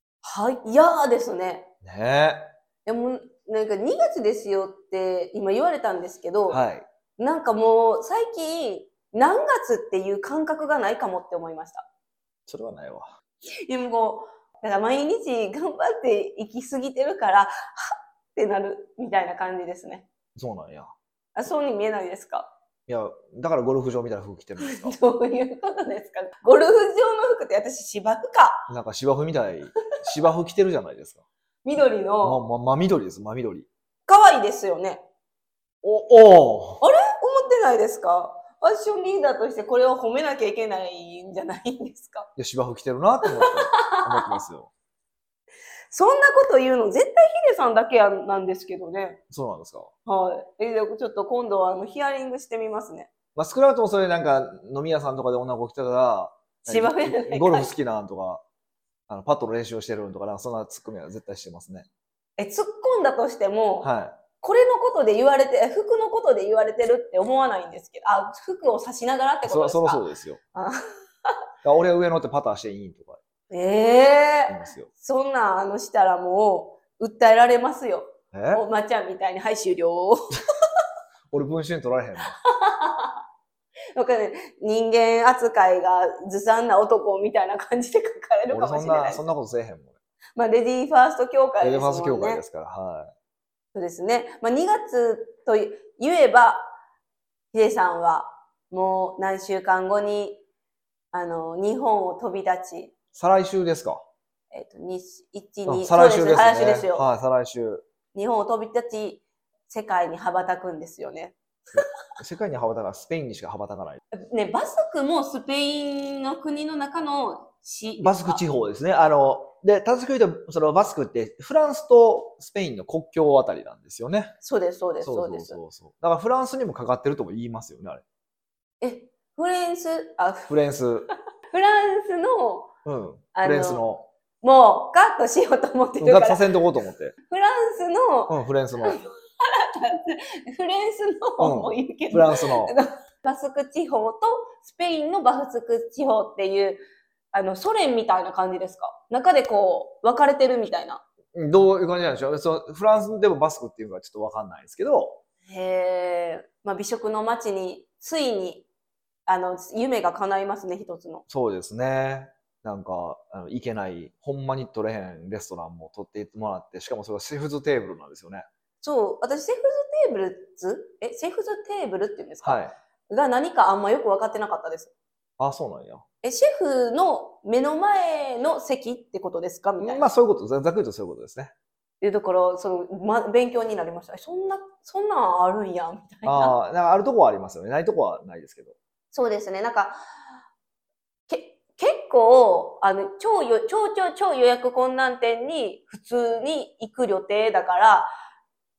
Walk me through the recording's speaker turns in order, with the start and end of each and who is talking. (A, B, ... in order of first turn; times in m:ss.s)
0:00.2-0:01.7 A
0:01.8-0:02.5 B
0:02.9-0:06.6 A
0:06.5-0:06.8 B
0:07.2-0:11.9 A
0:12.5-0:13.2 B
0:13.7-0:20.1 A
0:20.4-0:20.9 B
0:21.4-0:22.5 A
0:22.9-0:25.0 B
0:24.6-0:28.7 A
0:28.7-0:31.2 B
0:31.6-0:32.4 A
0:32.2-0:33.7 B
0:34.1-0:35.0 A
0:35.8-0:36.8 B
0:36.8-0:42.3 A
0:42.4-0:44.7 B
0:43.4-0:44.4 A
0:45.9-0:49.2 A
0:49.3-0:49.9 B
0:50.1-0:53.1 A
0:53.4-0:58.4 B
0:56.7-0:57.7 A
0:59.1-1:01.9 B
1:02.4-1:03.9 A
1:03.8-1:04.2 B
1:04.4-1:10.0 A
1:09.4-1:10.4 B
1:10.5-1:11.4 A
1:11.6-1:13.2 B
1:13.5-1:20.4 A
1:14.5-1:14.9 B
1:18.3-1:18.6 B
1:21.3-1:22.4 B
1:22.4-1:23.2 A
1:24.0-1:29.2 A
1:28.5-1:30.0 B
1:30.4-1:32.4 A
1:31.6-1:33.1 B
1:33.8-1:36.7 A
1:37.5-1:40.4 A
1:41.1-1:42.9 A
1:43.2-1:44.0 B
1:44.5-1:47.1 A
1:45.7-1:47.9 B
1:48.1-1:51.4 A
1:51.7-1:54.0 B
1:54.1-1:58.4 A
1:58.0-2:04.4 B
2:04.4-2:05.6 A
2:05.0-2:08.0 B
2:08.8-2:10.5 A
2:10.5-2:11.1 B
2:11.5-2:12.7 A
2:12.8-2:14.1 B
2:13.4-2:13.8 A
2:14.4-2:16.4 A
2:16.0-2:17.2 B
2:17.3-2:26.8 A
2:18.3-2:19.0 B
2:21.4-2:22.7 B
2:27.3-2:31.0 A
2:31.4-2:35.2 B
2:35.5-2:38.7 A
2:39.3-2:41.2 A
2:41.3-2:48.5 B
2:48.8-2:54.9 A
2:52.4-2:52.8 B
2:55.4-2:56.0 B
2:56.2-3:00.0 A
2:59.8-3:01.5 B
3:02.0-3:06.6 A
3:06.2-3:08.8 B
3:09.1-3:10.0 A
3:11.3-3:18.1 A